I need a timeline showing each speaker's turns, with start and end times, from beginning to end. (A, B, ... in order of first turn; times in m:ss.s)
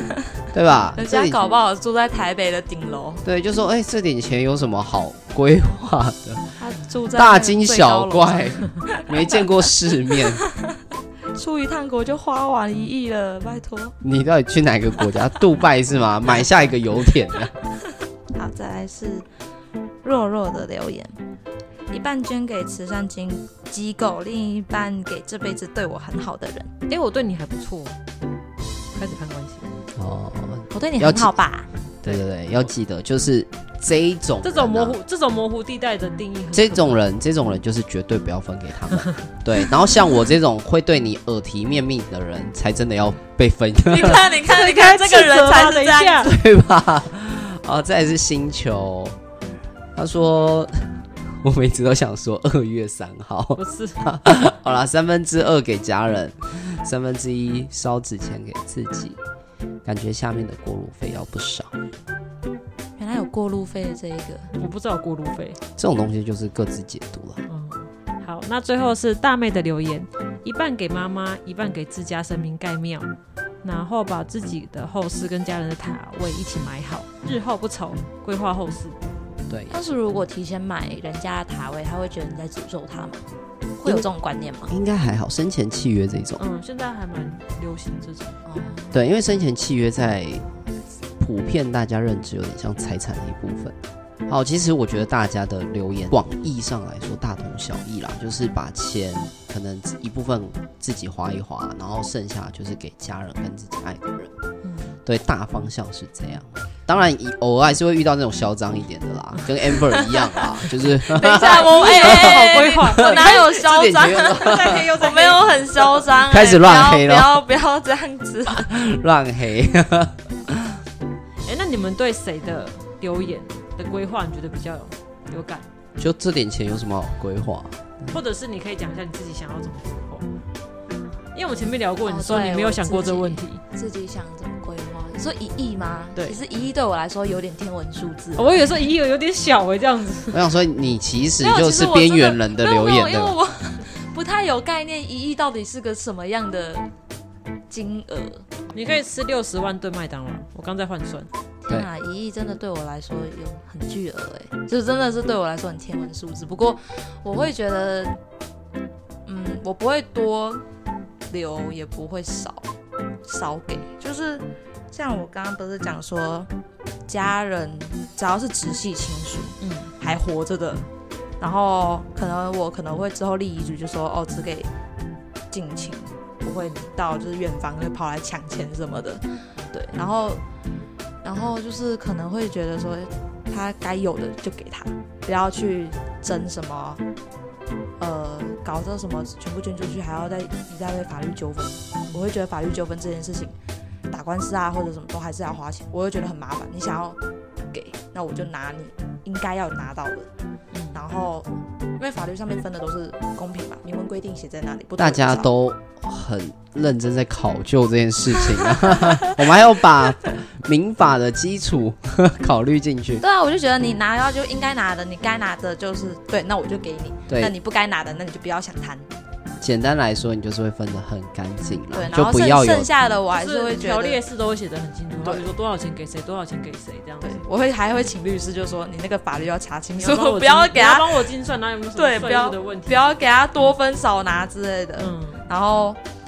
0:00.5-0:01.4 A
0:01.0-0:03.2 B
0:03.2-0:06.6 A
0:06.6-0:09.4 B
0:07.1-0:10.4 A
0:10.2-0:10.6 B
0:11.3-0:14.0 B
0:14.0-0:17.6 A
0:18.3-0:19.3 B
0:20.0-0:21.1 B
0:21.9-0:26.7 B
0:26.9-0:28.0 C
0:29.0-0:29.7 C
0:30.0-0:31.4 A
0:30.7-0:31.7 B
0:32.0-0:35.0 A
0:34.4-0:37.0 C
0:36.5-0:44.2 A
0:43.8-0:46.3 B
0:44.3-0:46.3 C
0:46.2-0:49.2 A
0:50.0-0:59.2 A
0:53.6-0:54.0 C
0:59.8-1:01.7 A
1:03.0-1:04.5 B
1:04.6-1:05.6 C
1:05.8-1:07.4 A
1:07.5-1:13.1 C
1:13.6-1:19.0 C
1:19.5-1:20.0 A
1:19.7-1:23.3 B
1:23.8-1:24.7 B
1:24.7-1:26.4 A
1:26.4-1:28.4 C
1:28.5-1:29.0 B
1:28.9-1:30.5 A
1:31.2-1:33.8 A
1:34.3-1:44.3 A
1:44.6-1:44.9 C
1:45.0-1:54.9 A
1:49.8-1:58.6 B
1:51.3-1:56.0 C
1:56.3-1:57.4 A
1:58.5-2:00.8 A
2:01.4-2:05.7 C
2:06.0-2:07.8 A
2:08.1-2:10.3 C
2:11.3-2:13.6 C
2:12.0-2:18.5 B
2:18.4-2:20.4 C
2:20.3-2:23.4 A
2:21.4-2:26.9 B
2:27.7-2:28.6 B
2:28.7-2:31.3 C
2:31.6-2:38.2 B
2:39.3-2:40.6 B
2:41.3-2:42.7 B
2:43.2-2:46.5 B
2:47.1-2:50.9 B
2:49.6-2:49.9 C
2:51.4-2:54.7 B
2:55.5-3:00.4 B
3:01.2-3:07.0 B
3:08.0-3:13.5 B
3:14.1-3:17.2 B
3:17.7-3:20.3 B
3:20.7-3:21.0 C
3:20.9-3:25.5 B
3:25.0-3:33.2 A
3:33.2-3:39.1 B
3:37.3-3:37.5 A
3:39.6-3:42.9 A
3:41.9-3:44.2 B
3:43.3-3:47.4 C
3:47.2-3:51.3 B
3:50.0-3:53.2 C
3:52.0-3:56.0 B
3:55.0-3:55.4 C